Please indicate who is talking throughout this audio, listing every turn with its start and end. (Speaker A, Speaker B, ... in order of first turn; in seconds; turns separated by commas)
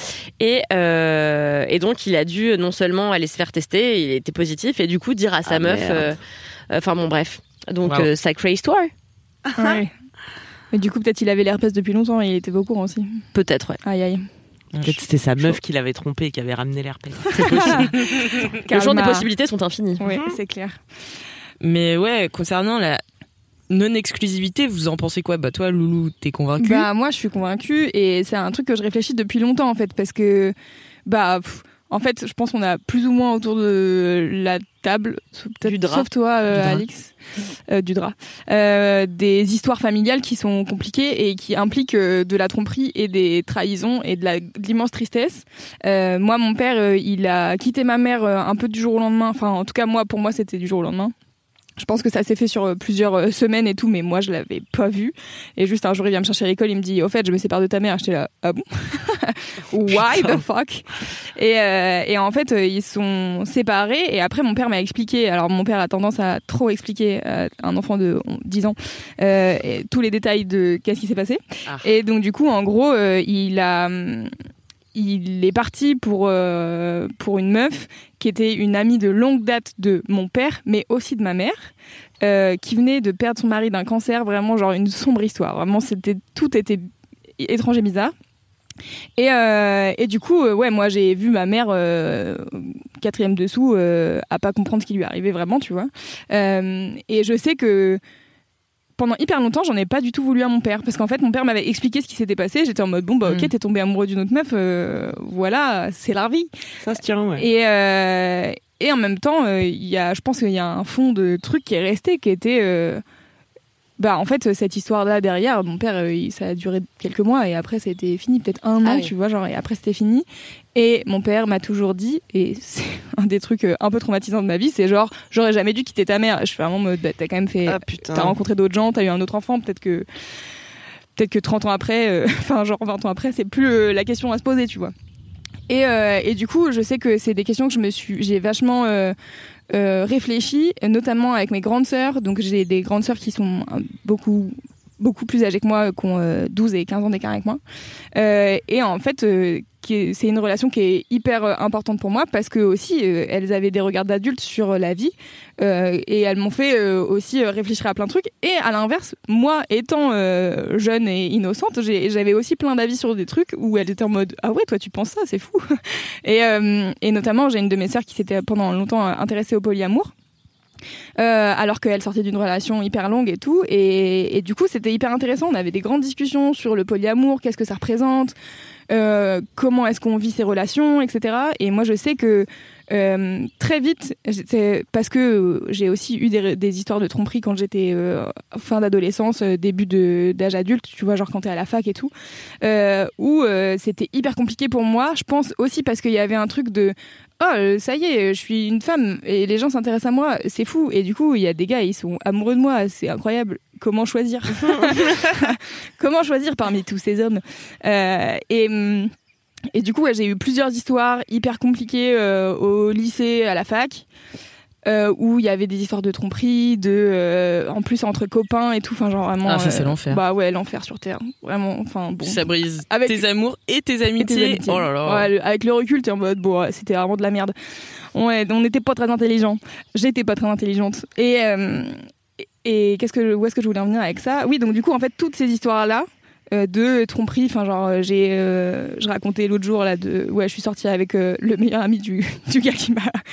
Speaker A: 0.4-6.2, Speaker B: 5.5-6.1, Speaker A: 6.7-8.9, Speaker B: 9.4-9.8, Speaker C: 9.6-9.9, Speaker C: 10.7-13.2, Speaker A: 13.3-13.8, Speaker C: 13.8-14.3, Speaker D: 14.7-15.0, Speaker B: 14.8-17.9, Speaker C: 17.3-17.9, Speaker D: 17.9-18.4, Speaker C: 18.6-19.3, Speaker A: 18.7-20.0, Speaker C: 20.0-20.8, Speaker B: 20.0-20.4, Speaker D: 21.6-23.0, Speaker D: 23.7-26.9, Speaker C: 26.6-30.5, Speaker C: 31.1-37.1, Speaker A: 35.6-36.1, Speaker D: 36.5-36.8, Speaker C: 37.7-51.1, Speaker C: 51.8-74.3, Speaker B: 60.1-60.4, Speaker C: 74.9-86.9, Speaker C: 87.4-88.1, Speaker C: 89.2-98.0, Speaker C: 99.0-106.5, Speaker B: 106.8-107.5, Speaker C: 107.4-113.0, Speaker C: 114.0-130.1, Speaker A: 118.8-119.1, Speaker B: 127.7-128.4, Speaker C: 131.2-134.9, Speaker C: 135.7-139.2, Speaker C: 139.7-147.6, Speaker C: 148.1-165.7, Speaker C: 166.2-170.1, Speaker C: 171.2-178.3, Speaker C: 178.9-209.1, Speaker B: 204.7-205.3, Speaker C: 209.7-214.1, Speaker C: 214.8-223.2, Speaker D: 219.4-220.2, Speaker D: 222.2-225.3, Speaker C: 224.2-227.5, Speaker C: 228.1-232.0, Speaker C: 232.6-243.2